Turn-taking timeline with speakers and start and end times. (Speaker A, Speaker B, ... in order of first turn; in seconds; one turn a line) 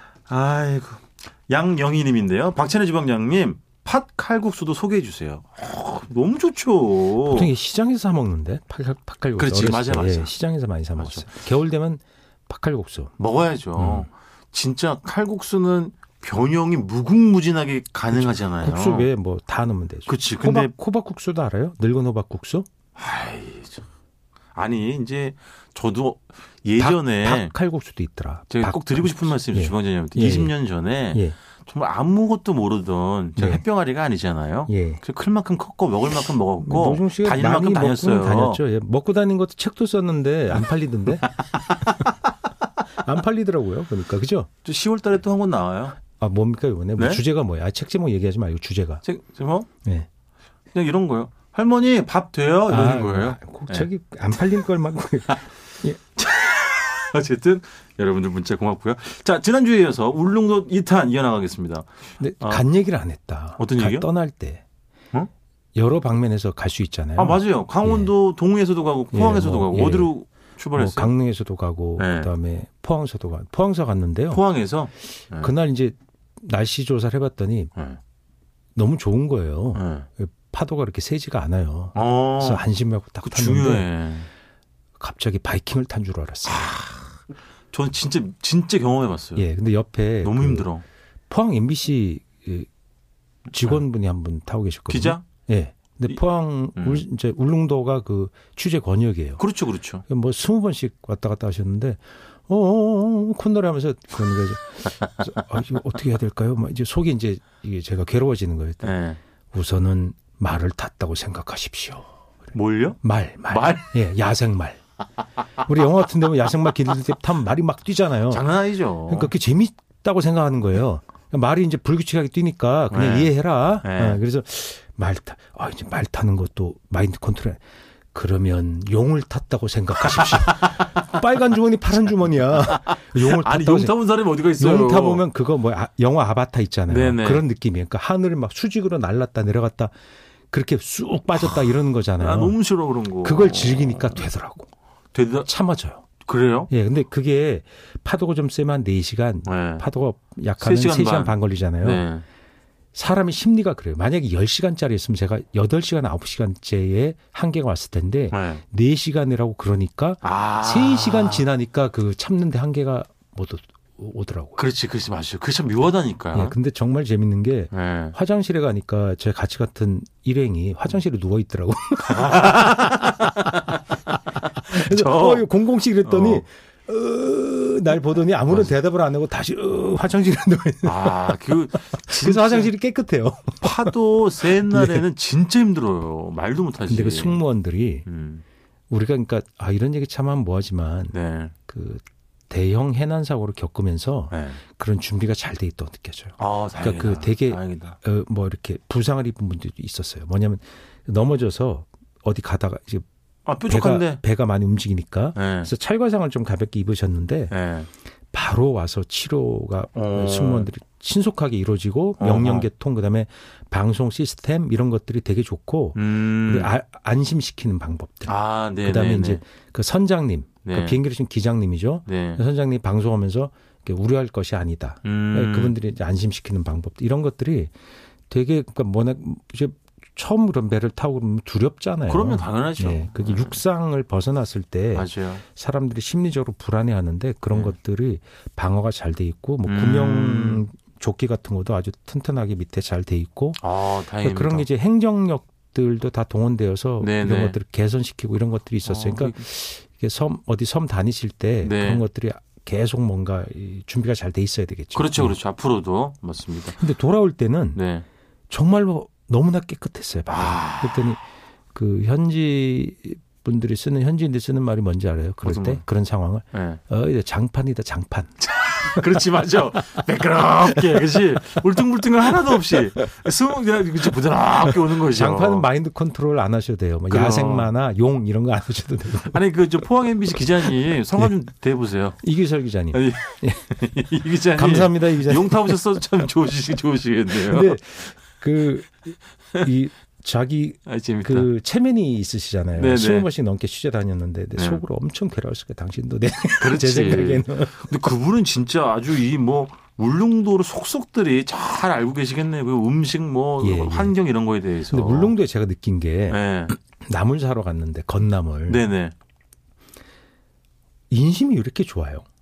Speaker A: 0.3-7.5
Speaker B: 7.2-13.2
Speaker A: 9.4-10.3
Speaker A: 11.0-11.3
Speaker A: 13.2-19.1
Speaker B: 13.8-14.1
Speaker B: 18.1-22.7
Speaker A: 20.1-20.7
Speaker A: 23.0-23.8
Speaker A: 24.5-27.5
Speaker B: 26.8-30.6
Speaker A: 28.5-38.6
Speaker B: 31.1-31.4
Speaker B: 33.4-33.6
Speaker B: 34.7-35.0
Speaker B: 36.6-41.3
Speaker A: 41.4-42.1
Speaker B: 43.0-44.5
Speaker A: 44.6-46.0
Speaker B: 46.2-49.0
Speaker A: 47.0-47.2
Speaker A: 49.0-49.7
Speaker A: 50.7-53.9
Speaker B: 52.7-56.0
Speaker A: 56.2-62.6
Speaker B: 62.2-64.6
Speaker A: 63.6-64.1
Speaker B: 65.8-68.1
Speaker A: 67.2-71.1
Speaker B: 69.1-70.1
Speaker B: 70.7-74.4
Speaker A: 72.0-72.3
Speaker A: 74.3-75.5
Speaker B: 75.4-77.7
Speaker B: 78.8-83.9
Speaker A: 79.8-80.1
Speaker A: 82.0-82.7
Speaker A: 83.2-84.3
Speaker B: 85.0-86.9
Speaker A: 86.5-87.2
Speaker A: 87.7-89.5
Speaker B: 89.4-90.7
Speaker A: 90.2-90.8
Speaker B: 91.3-92.7
Speaker B: 93.5-99.5
Speaker A: 94.9-95.2
Speaker A: 96.8-97.0
Speaker A: 99.4-100.0
Speaker B: 100.1-109.0
Speaker A: 108.8-109.2
Speaker B: 109.5-112.1
Speaker A: 112.5-113.9
Speaker B: 113.0-114.8
Speaker B: 115.6-118.5
Speaker A: 118.3-119.3
Speaker B: 119.1-127.6
Speaker A: 122.9-124.2
Speaker B: 128.1-134.0
Speaker A: 130.1-131.0
Speaker A: 132.7-135.2
Speaker B: 134.5-139.9
Speaker A: 136.9-137.4
Speaker B: 140.5-142.6
Speaker A: 142.2-144.3
Speaker B: 143.2-144.7
Speaker A: 145.1-145.5
Speaker B: 145.4-146.0
Speaker A: 146.2-146.7
Speaker B: 146.7-152.1
Speaker A: 149.5-149.9
Speaker A: 150.6-152.2
Speaker B: 152.9-164.6
Speaker A: 158.3-158.6
Speaker A: 160.2-161.5
Speaker A: 164.6-166.6
Speaker B: 166.3-172.6
Speaker A: 167.7-168.2
Speaker A: 172.1-175.5
Speaker B: 174.7-185.1
Speaker A: 176.1-176.4
Speaker A: 178.5-178.7
Speaker A: 180.8-182.7
Speaker A: 183.6-187.4
Speaker B: 186.9-188.1
Speaker A: 188.1-188.4
Speaker B: 188.9-191.2
Speaker A: 191.1-191.6
Speaker B: 191.7-203.1
Speaker A: 194.3-194.6
Speaker A: 196.4-198.0
Speaker A: 203.5-204.2
Speaker B: 203.7-207.5
Speaker A: 205.3-205.7
Speaker A: 207.5-207.9
Speaker B: 208.3-227.7
Speaker A: 209.9-210.7
Speaker A: 212.2-212.7
Speaker A: 215.9-216.7
Speaker A: 218.3-219.4
Speaker A: 220.6-221.0
Speaker A: 222.1-222.4
Speaker A: 225.0-225.8
Speaker B: 228.3-255.4
Speaker A: 232.1-233.6
Speaker A: 234.9-235.4
Speaker A: 237.5-237.8
Speaker A: 239.7-240.7
Speaker A: 243.6-244.7
Speaker A: 247.0-247.6
Speaker A: 248.8-249.4
Speaker A: 251.6-252.0
Speaker A: 254.9-256.8
Speaker B: 256.8-257.8
Speaker A: 257.7-258.1
Speaker B: 258.5-261.2
Speaker A: 260.3-261.1
Speaker B: 261.7-269.0
Speaker A: 265.4-265.8
Speaker A: 266.5-266.8
Speaker A: 268.4-275.7
Speaker B: 274.8-279.4
Speaker A: 277.1-277.7
Speaker A: 279.2-282.3
Speaker B: 282.2-283.6
Speaker A: 282.9-287.8
Speaker B: 284.5-285.8
Speaker B: 287.3-297.9
Speaker A: 290.9-291.5
Speaker A: 292.8-293.3
Speaker A: 294.6-294.8
Speaker A: 296.6-305.4
Speaker B: 303.6-304.2
Speaker B: 304.9-306.4
Speaker A: 306.3-306.8
Speaker B: 307.0-308.9
Speaker A: 308.7-309.1
Speaker B: 311.1-312.2